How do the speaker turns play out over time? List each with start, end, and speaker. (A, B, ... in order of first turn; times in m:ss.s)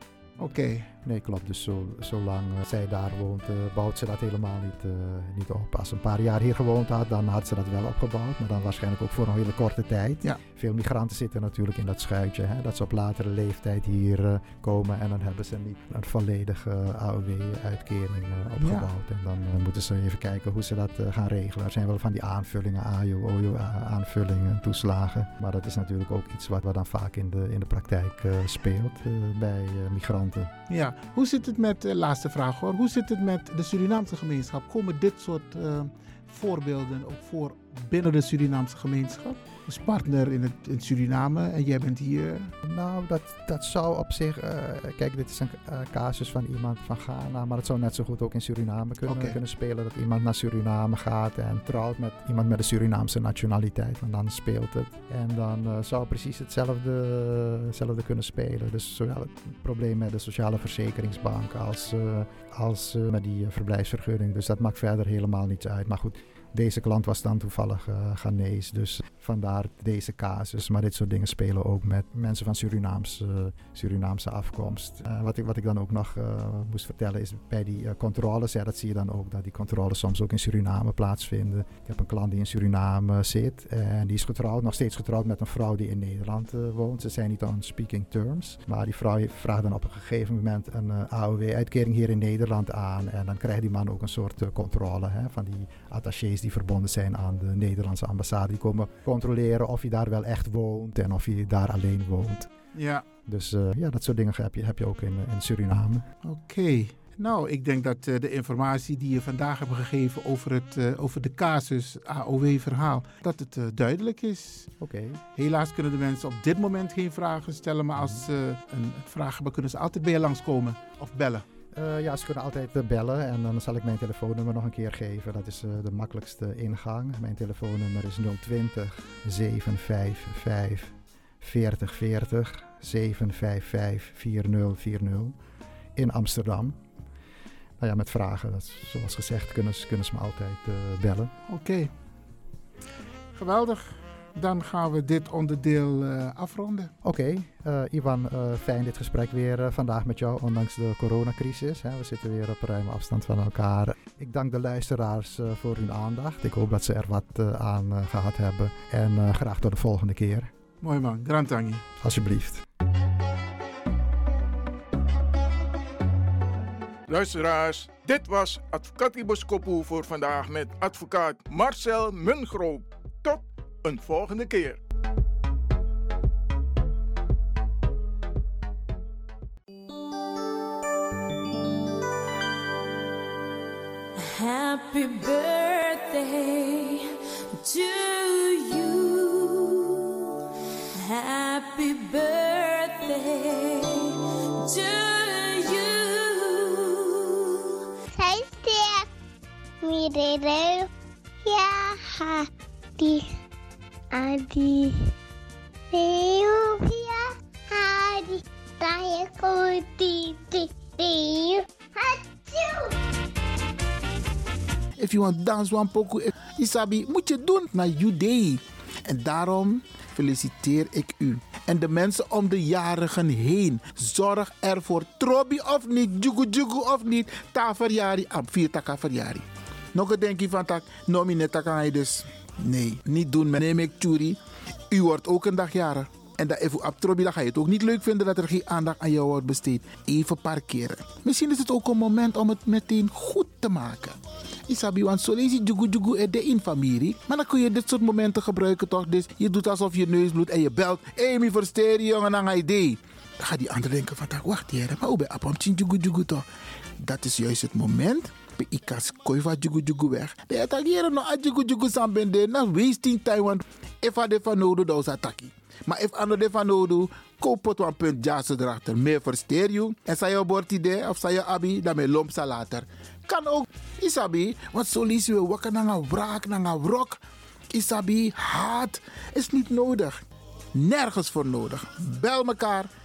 0:00.4-0:00.9 A
0:01.0-0:30.5 B
0:18.6-0:18.9 A
0:30.7-0:42.5 A
0:42.6-1:42.5 B
0:49.1-0:49.4 A
1:42.8-1:43.1 A
1:43.3-1:46.0 B
1:46.2-1:54.7 A
1:54.8-1:55.2 B
1:55.4-2:01.4 A
1:58.0-1:58.3 B
2:01.7-2:15.4 B
2:16.0-2:16.8 B
2:17.8-2:21.3 B
2:21.5-2:21.9 A
2:23.3-2:26.9 A
2:27.0-2:40.5 B
2:40.8-2:41.8 A
2:42.0-2:42.6 B
2:47.1-2:54.8 C
3:04.2-3:10.2 D
3:11.0-3:17.8 D
3:18.1-3:19.1 E
3:19.8-3:20.9 E
3:21.4-3:23.3 E
3:24.1-3:25.1 E
3:25.9-3:32.9 E
3:35.0-3:54.4 A
3:54.9-4:16.4 A
4:17.0-4:37.2 A
4:37.7-4:40.2 A
4:40.8-4:42.9 A